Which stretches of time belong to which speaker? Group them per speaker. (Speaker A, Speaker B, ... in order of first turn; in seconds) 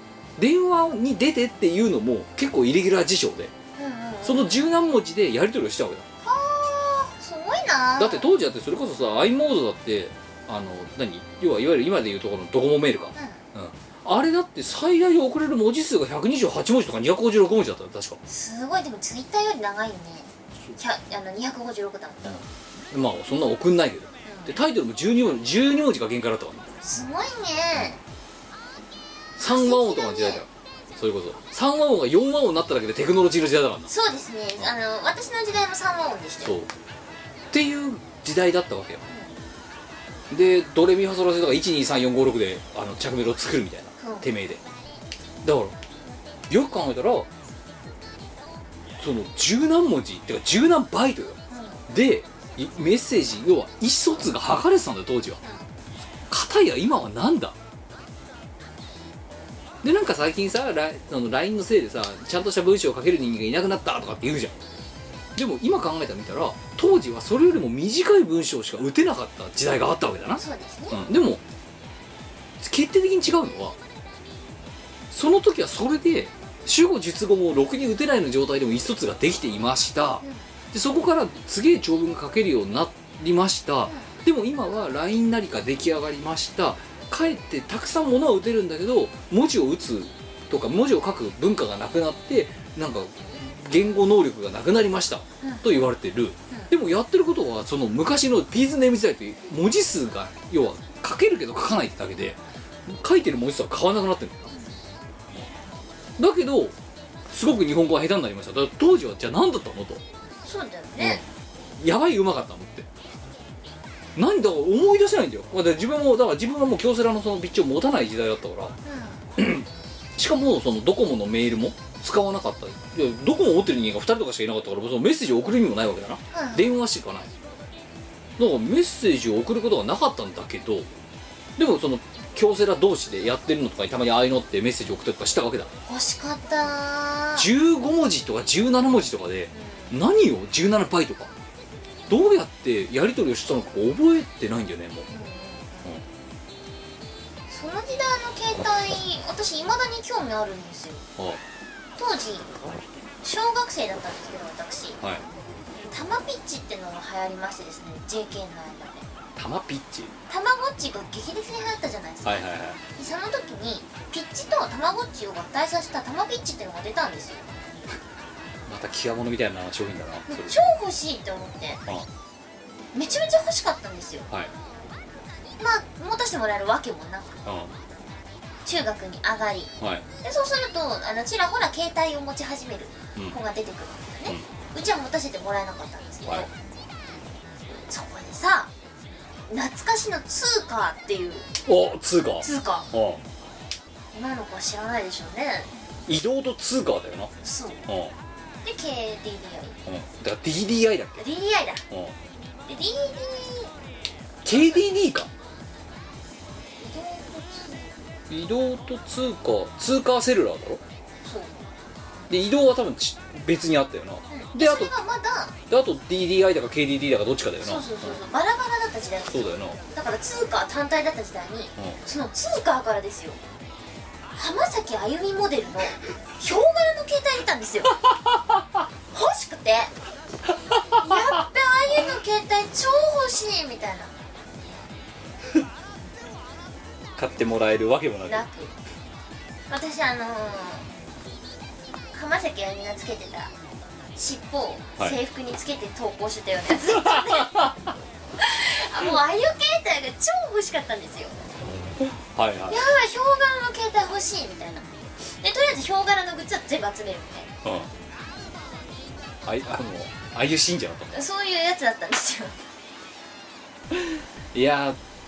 Speaker A: 0.4-3.5, 4.2-6.0, 8.0-18.2, 22.2-26.7, 29.4-33.9, 36.4-36.7, 37.5-39.0, 40.3-44.6, 45.4-45.8, 46.5-47.3, 49.0-55.4, 56.3-57.5, 59.8-64.6, 65.3-71.4, 72.6-73.8, 75.1-104.5, 106.2-106.7, 107.3-110.0, 111.8-112.9, 114.2-118.8, 119.4-119.7, 120.2-127.3, 128.4-130.9, 131.6-135.7, 137.4-141.3, 142.1-145.1, 159.3-160.1, 162.2-162.8, 168.7-170.6, 177.4-177.7, 179.8-180.0, 191.7-193.2, 196.1-197.3, 197.9-198.1, 199.8-201.2, 201.9-202.1, 204.4-205.3, 208.3-210.8, 212.3-215.0, 215.7-218.2, 219.3-219.8, 228.3-228.6, 230.7-231.4, 237.2-238.4, 246.9-247.8, 252.0-252.8, 257.6-257.9, 259.4-261.1, 263.9-265.0
Speaker B: 3.8-4.6, 6.2-8.3, 13.1-13.4, 18.3-22.4, 24.2-24.6, 26.8-28.0, 29.4-30.4, 33.9-36.6, 44.0-44.3, 51.5-51.9, 70.4-71.0, 83.8-84.1, 104.5-104.8, 110.4-111.2, 118.8-119.2, 126.3-126.7, 135.8-137.5, 139.5-140.0, 145.1-145.9, 147.5-151.1, 152.0-152.5, 153.2-155.0, 155.8-159.1, 160.3-167.5, 170.3-171.8, 172.9-174.3, 175.6-177.4, 178.6-186.5, 187.7-188.7, 189.5-191.5, 192.4-192.9, 194.1-195.7, 197.4-197.8, 198.6-199.8, 201.2-201.8, 202.7-203.7, 204.4-204.8, 206.8-207.9, 211.2-211.5, 214.3-215.6, 217.6-223.4, 224.3-228.0, 229.1-229.9, 231.0-234.1, 238.3-238.7, 239.7-240.8, 242.1-243.5, 244.2-247.7, 248.4-251.4, 252.7-257.5, 261.1-262.5